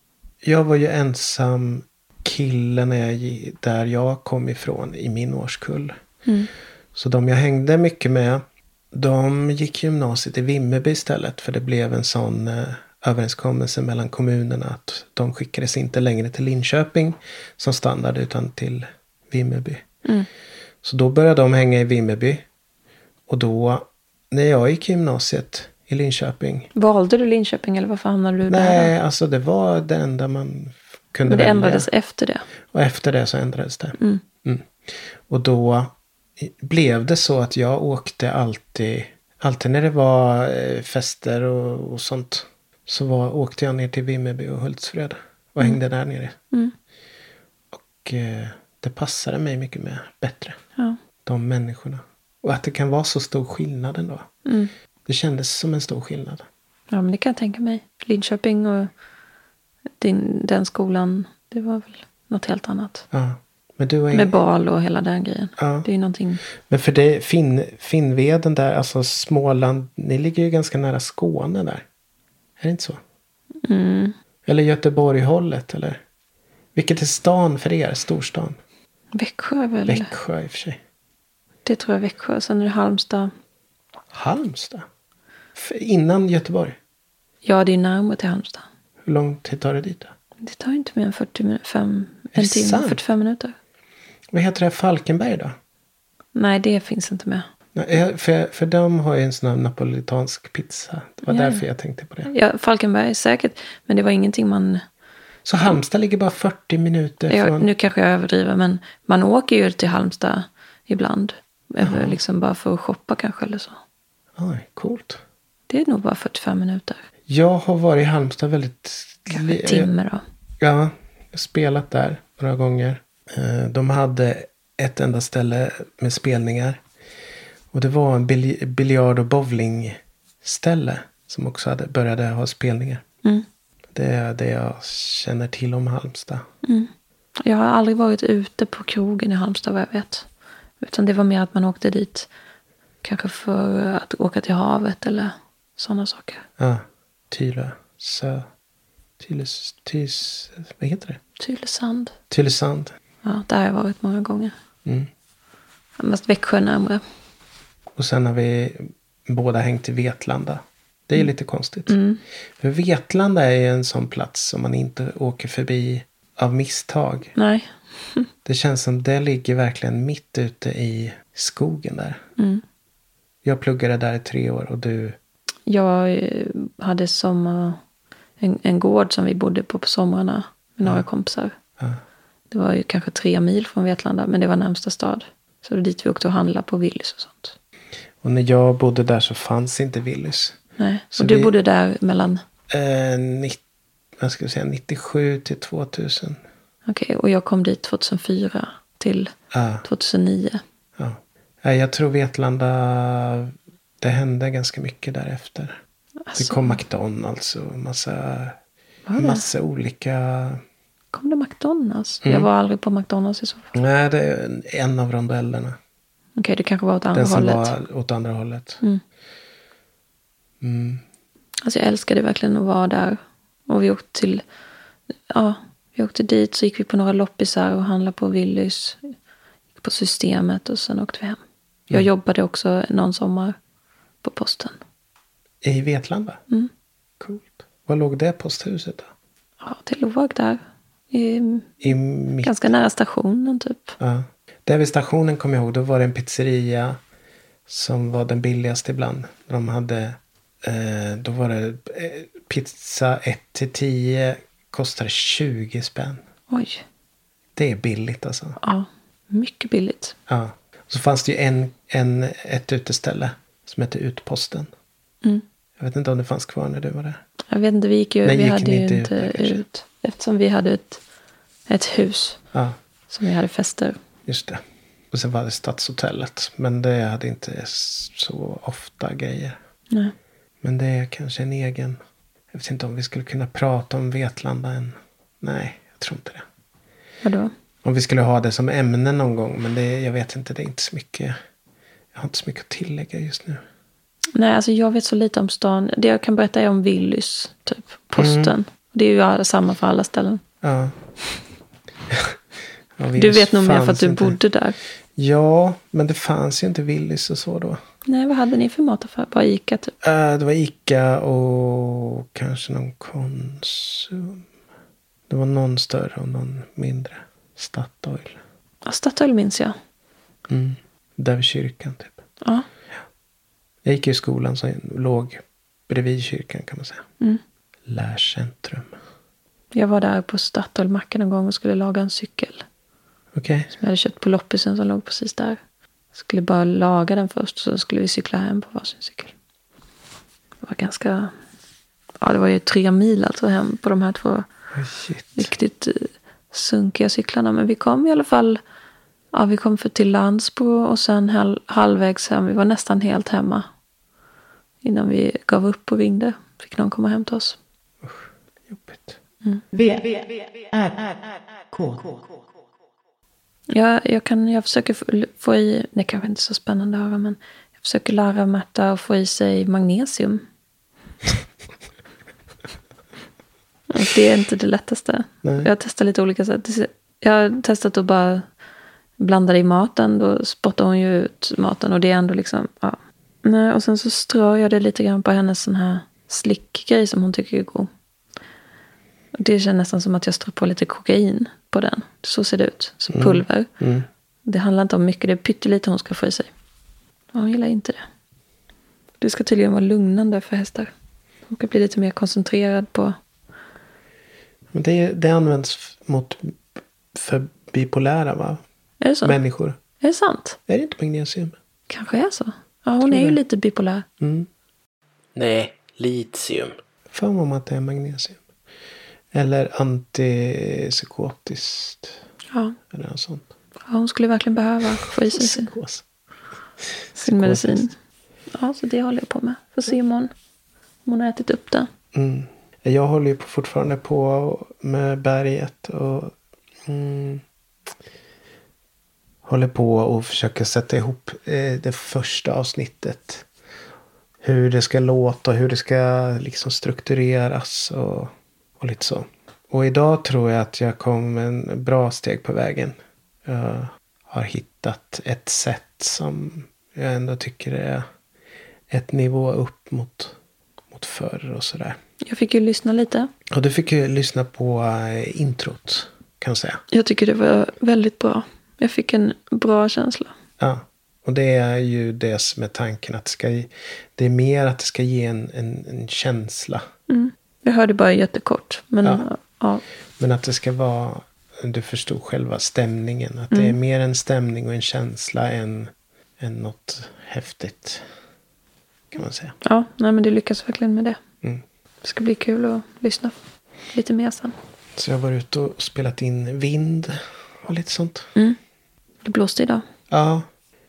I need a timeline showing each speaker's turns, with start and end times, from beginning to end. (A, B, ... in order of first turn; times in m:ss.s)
0:00.4-0:05.9 A
0:06.9-0:19.8 A
0:20.8-0:22.4 A
0:23.3-0:26.7 A
0:26.7-0:28.9 B
0:28.5-0:31.9 A
0:31.3-0:32.4 B
0:32.7-0:46.4 A
0:34.0-0:34.2 B
0:47.7-0:50.6 A
0:51.2-0:54.3 A
0:54.4-0:54.7 B
0:55.0-0:56.4 A
0:56.9-0:58.9 B
1:00.0-1:03.0 B
1:03.1-1:04.4 A
1:04.1-1:06.4 B
1:05.6-1:05.9 A
1:06.6-1:11.8 A
1:12.6-1:13.0 A
1:13.6-1:14.1 B
1:14.4-1:16.0 A
1:16.7-1:18.6 A
1:19.1-1:20.1 B
1:19.9-1:20.8 A
1:21.6-1:23.3 B
1:24.1-1:24.8 A
1:25.5-1:26.8 A
1:27.4-1:28.6 B
1:29.0-1:30.1 A
1:30.4-1:33.5 B
1:32.3-1:33.0 A
1:34.3-1:35.5 A
1:36.3-1:37.4 B
1:37.7-1:42.3 A
1:41.3-1:41.6 B
1:42.2-1:44.8 B
1:45.4-1:47.7 A
1:47.3-1:53.8 B
1:51.8-1:52.2 A
1:54.4-1:55.2 A
1:55.7-1:57.0 B
1:57.3-1:59.9 A
1:59.3-2:00.2 B
2:00.6-2:06.8 A
2:07.7-2:13.0 A
2:13.9-2:16.4 A
2:16.6-2:16.9 B
2:17.4-2:20.3 B
2:20.8-2:22.3 B
2:23.0-2:26.4 B
2:26.6-2:28.5 A
2:29.2-2:31.2 A
2:31.4-2:32.1 B
2:32.3-2:32.9 A
2:33.2-2:34.5 B
2:36.0-2:37.0 B
2:38.0-2:42.0 A
2:41.9-2:42.2 B
2:42.6-2:47.3 A
2:47.4-2:48.3 B
2:48.4-2:52.2 A
2:52.4-2:52.6 B
2:53.4-2:55.2 A
2:55.7-2:57.8 B
2:58.4-3:01.5 B
3:02.5-3:07.5 B
3:08.2-3:10.6 A
3:10.8-3:12.4 B
3:11.1-3:11.5 A
3:12.7-3:13.6 A
3:14.2-3:16.4 A
3:16.9-3:19.3 B
3:19.5-3:19.8 A
3:19.8-3:20.6 B
3:21.0-3:25.8 A
3:26.3-3:26.8 B
3:26.3-3:28.6 A
3:29.1-3:29.4 B
3:29.2-3:30.6 A
3:31.1-3:33.7 B
3:32.2-3:32.5 A
3:33.7-3:35.8 A
3:36.4-3:37.7 B
3:37.1-3:38.8 A
3:40.6-3:41.0 A
3:41.6-3:44.4 B
3:45.3-3:49.0 B
3:49.8-3:51.4 B
3:51.9-3:53.6 B
3:54.2-3:54.8 B
3:55.6-3:56.4 A
3:57.2-3:59.1 A
3:59.6-4:01.8 B
4:01.8-4:02.6 A
4:02.4-4:04.0 B
4:04.0-4:07.0 A
4:07.7-4:16.2 A
4:16.5-4:16.8 B
4:17.6-4:18.6 A
4:18.6-4:20.2 B
4:20.3-4:24.7 A
4:25.8-4:27.2 A
4:27.5-4:31.0 B
4:28.2-4:29.6 A
4:31.7-4:32.4 B
4:32.5-4:32.8 A
4:33.1-4:34.0 B
4:34.2-4:39.6 A
4:40.6-4:42.0 A
4:42.5-4:46.4 A
4:47.2-4:47.5 B
4:47.8-4:51.4 A
4:52.1-4:53.6 A
4:54.3-5:00.4 B
4:58.2-4:58.5 A
5:00.6-5:00.9 A
5:02.1-5:02.4 A
5:03.0-5:04.4 A
5:03.2-5:04.8 B
5:05.1-5:07.8 A
5:08.0-5:09.9 B
5:10.0-5:14.4 A
5:15.3-5:18.4 A
5:18.8-5:19.8 B
5:20.5-5:22.2 A
5:22.4-5:22.7 B
5:23.8-5:27.0 A
5:27.9-5:28.9 A
5:29.7-5:32.6 B
5:33.3-5:33.7 A
5:33.7-5:35.6 B
5:36.1-5:39.3 B
5:40.6-5:41.3 B
5:42.2-5:44.5 B
5:44.7-5:45.5 A
5:45.4-5:48.6 B
5:49.3-5:53.7 B
5:54.8-5:57.6 B
5:58.0-5:59.2 A
5:59.7-6:02.5 C
6:03.7-6:10.4 B
6:13.9-6:18.4 B
6:15.4-6:15.7 A
6:19.2-6:27.9 B
6:29.3-6:33.7 B
6:33.1-6:34.1 A
6:34.4-6:36.5 B
6:37.3-6:38.0 B
6:39.2-6:40.9 B
6:41.5-6:43.2 B
6:44.7-6:46.6 A
6:47.1-6:48.6 A
6:49.0-6:49.4 B
6:49.2-6:49.8 A
6:50.0-6:50.6 B
6:50.7-6:51.6 A
6:51.9-6:54.0 B
6:53.0-6:53.4 A
6:54.2-6:54.5 A
6:55.3-6:58.4 A
6:59.3-7:02.2 A
7:02.5-7:02.8 B
7:02.9-7:03.5 A
7:03.9-7:05.7 B
7:05.0-7:06.0 A
7:07.1-7:07.9 A
7:07.2-7:07.9 B
7:08.5-7:10.3 B
7:11.0-7:11.9 B
7:12.1-7:17.4 A
7:19.4-7:23.4 A
7:24.4-7:38.0 A
7:38.9-7:40.4 A
7:40.9-7:42.0 A
7:42.2-7:43.3 B
7:43.5-7:46.8 A
7:46.9-7:50.3 B
7:50.6-7:56.8 A
7:57.1-7:59.8 B
8:00.2-8:08.0 A
8:03.5-8:03.8 B
8:09.1-8:09.6 A
8:09.6-8:11.2 B
8:12.0-8:13.4 B
8:13.9-8:14.5 B
8:15.0-8:18.3 A
8:19.2-8:19.8 B
8:20.1-8:20.5 A